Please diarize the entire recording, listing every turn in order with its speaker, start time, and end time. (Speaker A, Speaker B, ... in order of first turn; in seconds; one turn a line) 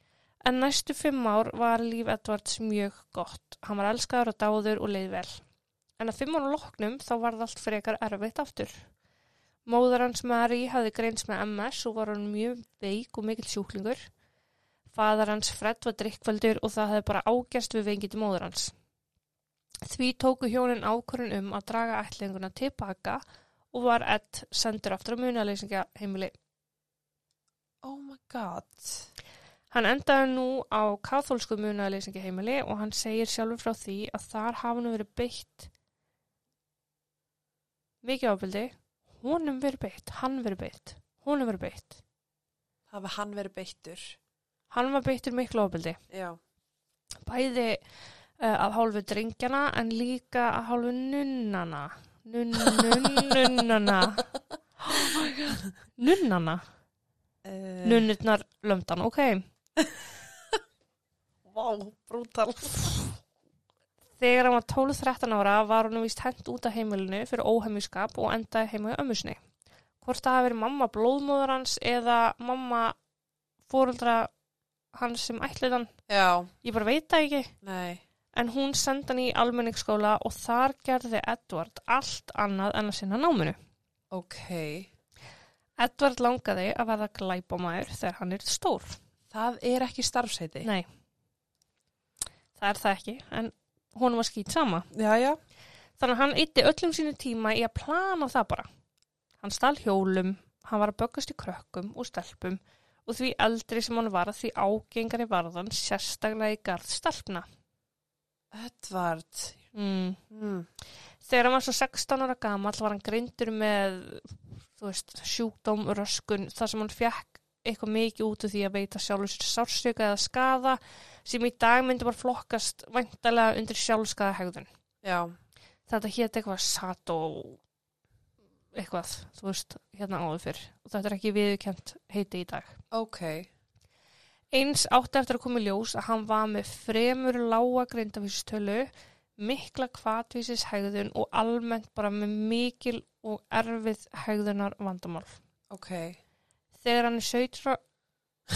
Speaker A: 0.4-5.4
Speaker A: 6.0-8.8
Speaker A: 9.7-14.0
Speaker A: 14.9-18.7
Speaker A: 19.9-23.2
Speaker A: 23.7-26.3
Speaker B: 27.8-29.1
Speaker A: 29.7-35.7
Speaker A: 38.0-42.0
Speaker B: 42.9-44.2
Speaker A: 44.7-46.0
Speaker B: 46.1-46.4
Speaker A: 47.2-47.8
Speaker A: 48.4-54.3
Speaker B: 52.7-53.3
Speaker A: 54.8-55.4
Speaker B: 54.9-55.6
Speaker A: 56.0-56.6
Speaker B: 57.4-58.1
Speaker A: 57.8-59.5
Speaker B: 61.5-63.0
Speaker A: 64.2-69.4
Speaker A: 70.0-73.0
Speaker A: 73.7-74.3
Speaker A: 74.9-75.9
Speaker B: 76.1-76.5
Speaker A: 76.6-77.5
Speaker B: 77.6-78.0
Speaker A: 78.3-83.6
Speaker B: 84.1-84.9
Speaker A: 85.8-89.0
Speaker B: 89.3-90.7
Speaker A: 92.6-94.9
Speaker B: 94.9-95.4
Speaker A: 96.0-98.7
Speaker A: 99.4-107.5
Speaker B: 108.5-109.6
Speaker A: 109.7-110.2
Speaker B: 110.3-110.7
Speaker A: 111.2-124.7
Speaker B: 125.0-125.3
Speaker A: 125.9-127.6
Speaker A: 128.8-132.8
Speaker B: 132.9-133.5
Speaker A: 134.5-145.4
Speaker B: 145.7-146.2
Speaker A: 146.8-147.8